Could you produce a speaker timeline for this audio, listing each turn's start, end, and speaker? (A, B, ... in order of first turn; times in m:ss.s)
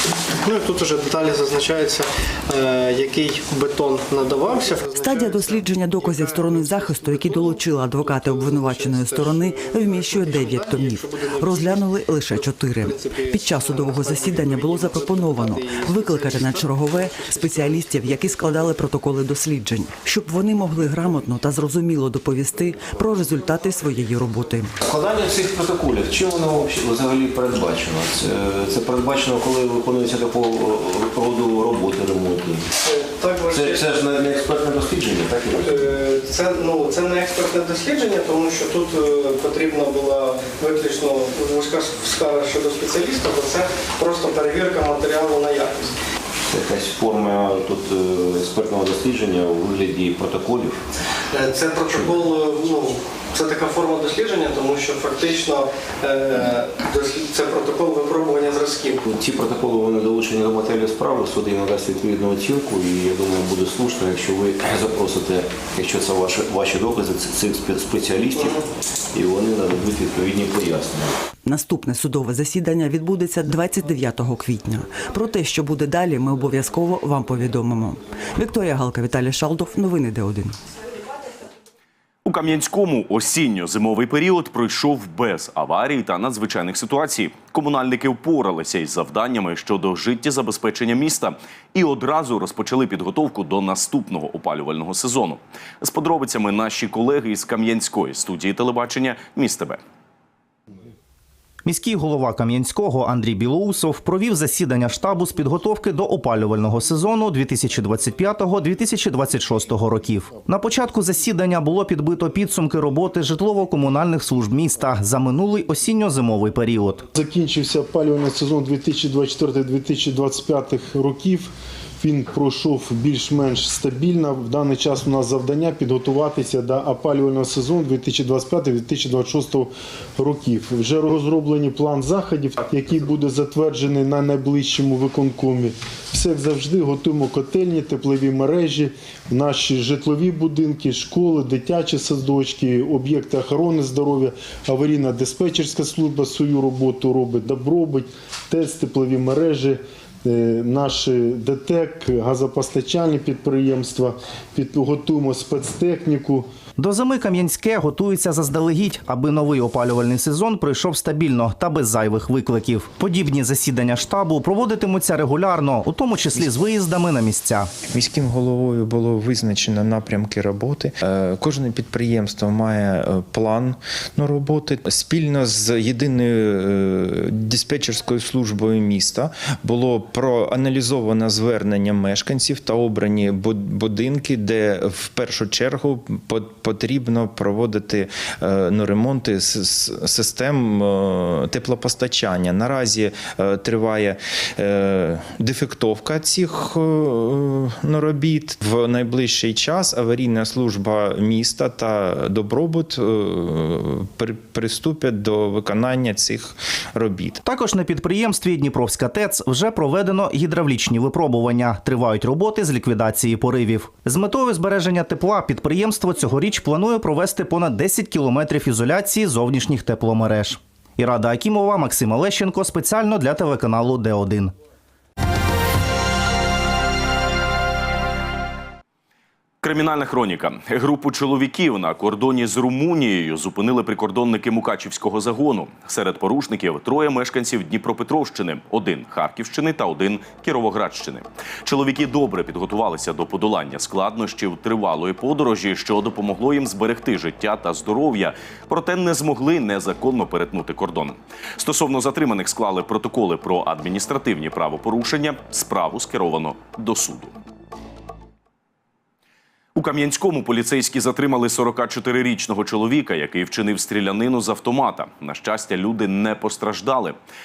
0:00.4-0:18.8 A
0:04.8-0:24.7 B
0:22.7-0:23.3 C
0:24.8-0:32.6 C
0:32.8-0:33.8 A
0:33.4-0:36.0 C
0:35.6-0:45.9 A
0:46.5-0:50.8 C
0:51.3-0:59.0 A
0:51.8-0:52.2 C
0:59.0-1:08.6 C
1:09.1-1:11.1 C
1:11.4-1:20.6 B
1:22.2-1:39.8 D
1:41.6-1:57.1 E
1:57.1-2:01.5 F
2:02.0-2:36.4 F
2:36.8-2:47.7 E
2:47.8-3:27.4 G
3:27.4-3:44.5 E
3:49.6-4:17.3 D
4:19.7-4:27.2 D